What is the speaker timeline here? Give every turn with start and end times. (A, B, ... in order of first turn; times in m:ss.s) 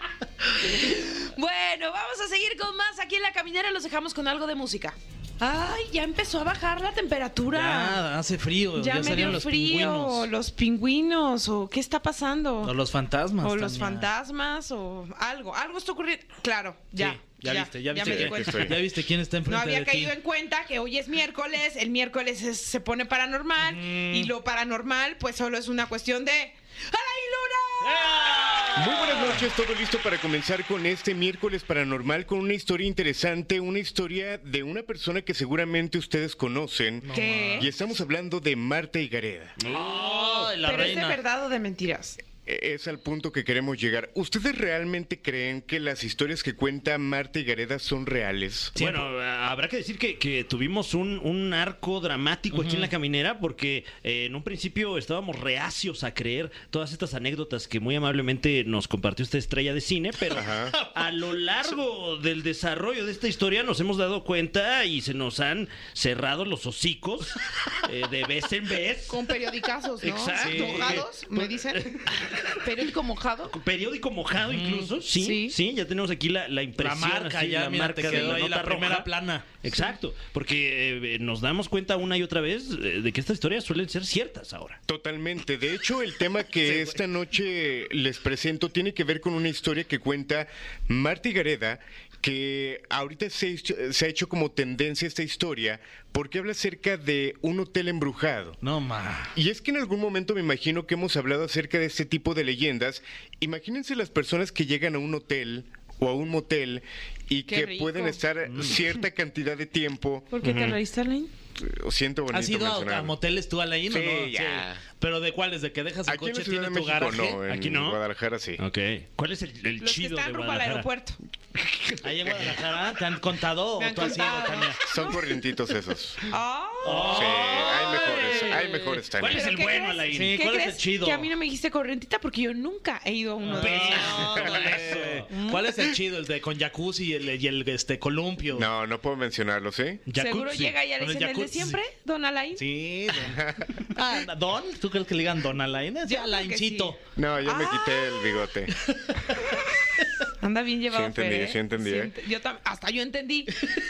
0:00.6-0:08.0 A
0:07.5-0:10.3 B
0:08.8-0:12.7 A
0:12.6-0:14.1 B
0:13.4-0:18.8 A
0:17.0-0:20.1 B
0:18.0-0:18.8 C
0:19.5-0:28.7 A
0:23.6-0:24.3 B
0:27.8-0:29.4 B
0:28.8-0:37.1 C
0:37.0-0:37.7 B
0:37.1-0:37.7 A
0:37.6-0:39.6 C
0:39.6-0:40.5 D
0:39.7-0:41.2 B
0:40.6-0:42.2 A
0:42.4-0:48.8 C
0:48.8-1:09.4 D
0:48.8-0:49.0 B
0:52.5-0:52.9 B
1:00.4-1:00.7 C
1:09.1-1:13.6 A
1:10.0-1:12.7 D
1:10.3-1:11.0 B
1:13.5-1:19.1 D
1:14.5-1:14.9 B
1:15.2-1:15.6 A
1:16.8-1:19.5 B
1:19.6-1:24.8 D
1:24.9-1:38.6 C
1:26.6-1:27.0 B
1:38.6-1:39.3 B
1:39.4-1:50.3 C
1:47.5-1:48.2 A
1:48.5-1:48.8 B
1:50.3-1:51.3 A
1:50.4-1:50.8 D
1:51.6-1:53.2 C
1:52.3-1:57.4 B
1:53.9-1:54.8 C
1:56.1-1:58.6 C
1:57.5-1:58.0 D
1:58.6-2:00.9 D
1:59.8-2:01.2 A
2:01.6-2:02.6 D
2:02.0-2:04.8 B
2:03.8-2:05.2 A
2:04.9-2:06.3 C
2:06.3-2:08.7 A
2:06.8-2:11.3 B
2:06.9-2:07.4 D
2:07.1-2:09.4 C
2:09.2-2:15.7 A
2:09.2-2:09.6 D
2:13.4-2:18.7 B
2:13.6-2:15.3 D
2:14.2-2:15.0 C
2:18.5-2:20.0 C
2:20.1-2:21.8 B
2:20.2-2:22.6 A
2:22.6-2:27.0 B
2:23.3-2:23.7 C
2:26.1-2:28.3 A
2:27.2-2:28.7 C
2:30.4-2:33.6 A
2:30.9-2:32.1 C